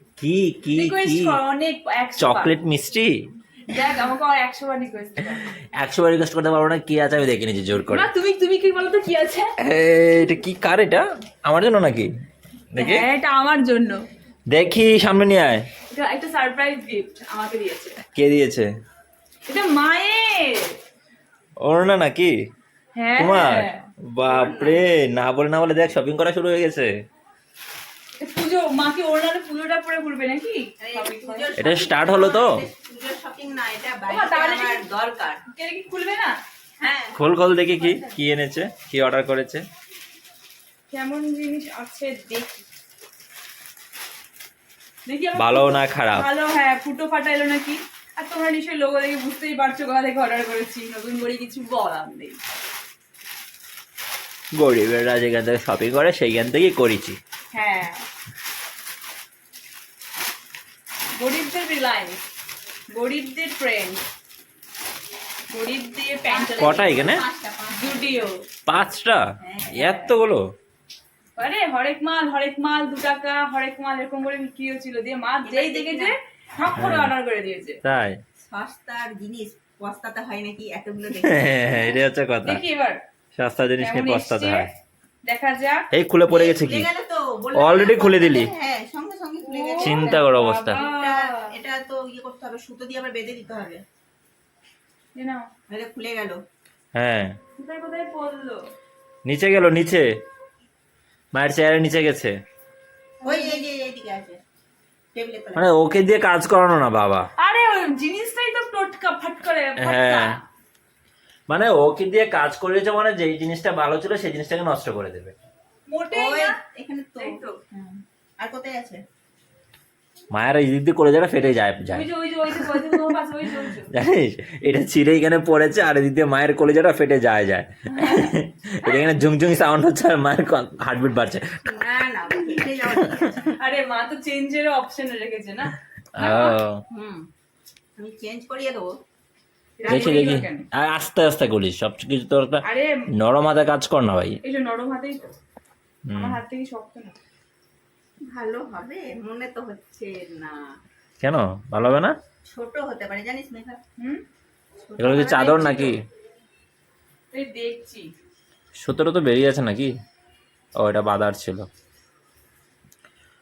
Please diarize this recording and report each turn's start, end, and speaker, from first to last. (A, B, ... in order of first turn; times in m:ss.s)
0:00.2-0:01.4 A
0:00.7-0:02.6 B
0:02.2-0:03.1 A
0:03.7-0:05.5 B
0:05.5-0:08.1 A
0:07.8-0:09.5 B
0:09.6-0:12.1 A
0:12.7-0:13.0 A
0:12.8-0:14.1 B
0:14.5-0:15.7 A
0:15.8-0:18.0 B
0:18.1-0:18.7 A
0:19.5-0:20.8 B
0:21.6-0:22.3 A
0:23.0-0:23.9 B
0:23.2-0:26.9 A
0:24.2-0:24.8 C
0:28.2-0:31.5 B
0:30.8-0:35.4 C
0:31.6-0:32.6 A
0:34.1-0:34.9 B
0:35.5-0:36.3 B
0:36.8-0:37.2 C
0:37.2-0:39.6 A
0:37.8-0:38.2 C
0:40.9-0:42.7 B
0:45.0-0:52.4 B
0:45.4-0:46.3 A
0:54.6-0:57.2 A
0:57.5-0:58.0 B
1:01.2-1:02.2 B
1:02.9-1:04.0 B
1:05.5-1:06.8 B
1:06.3-1:08.3 C
1:06.6-1:07.2 A
1:07.7-1:08.4 B
1:08.7-1:10.4 A
1:09.4-1:09.9 C
1:09.8-1:10.1 B
1:11.4-1:17.8 B
1:15.4-1:16.1 C
1:16.8-1:17.1 A
1:17.8-1:18.2 A
1:18.4-1:22.0 C
1:21.2-1:22.6 A
1:22.4-1:23.0 B
1:23.4-1:24.7 A
1:23.8-1:24.7 B
1:25.2-1:25.9 B
1:25.9-1:26.9 A
1:26.3-1:33.8 C
1:27.6-1:28.5 A
1:29.4-1:31.5 B
1:29.8-1:30.8 A
1:35.1-1:35.4 B
1:35.7-1:36.4 C
1:37.0-1:37.3 A
1:37.6-1:38.6 B
1:39.3-1:40.1 A
1:41.3-1:42.3 A
1:43.2-1:43.6 B
1:43.2-1:44.4 C
1:45.1-1:45.7 C
1:45.6-1:47.3 A
1:47.4-1:50.4 B
1:49.8-1:50.4 A
1:51.5-1:55.4 A
1:55.9-1:56.6 B
1:56.1-1:59.0 C
1:57.2-1:57.6 B
2:00.3-2:11.5 A
2:01.9-2:03.9 B
2:07.9-2:08.3 B
2:11.6-2:13.5 C
2:13.0-2:13.3 A
2:13.6-2:16.6 B
2:16.2-2:16.8 A
2:16.9-2:17.3 C
2:18.0-2:18.9 C
2:19.8-2:20.7 B
2:19.8-2:20.5 C
2:19.9-2:22.6 A
2:22.6-2:23.1 B
2:23.2-2:24.4 A
2:24.4-2:25.3 B
2:26.1-2:26.4 A
2:26.1-2:27.2 B
2:28.3-2:30.6 C
2:31.2-2:32.2 A
2:32.4-2:33.8 C
2:34.0-2:34.2 B
2:34.8-2:36.0 C
2:35.0-2:36.0 A
2:37.3-2:38.1 B
2:38.8-2:39.9 A
2:40.8-2:41.7 A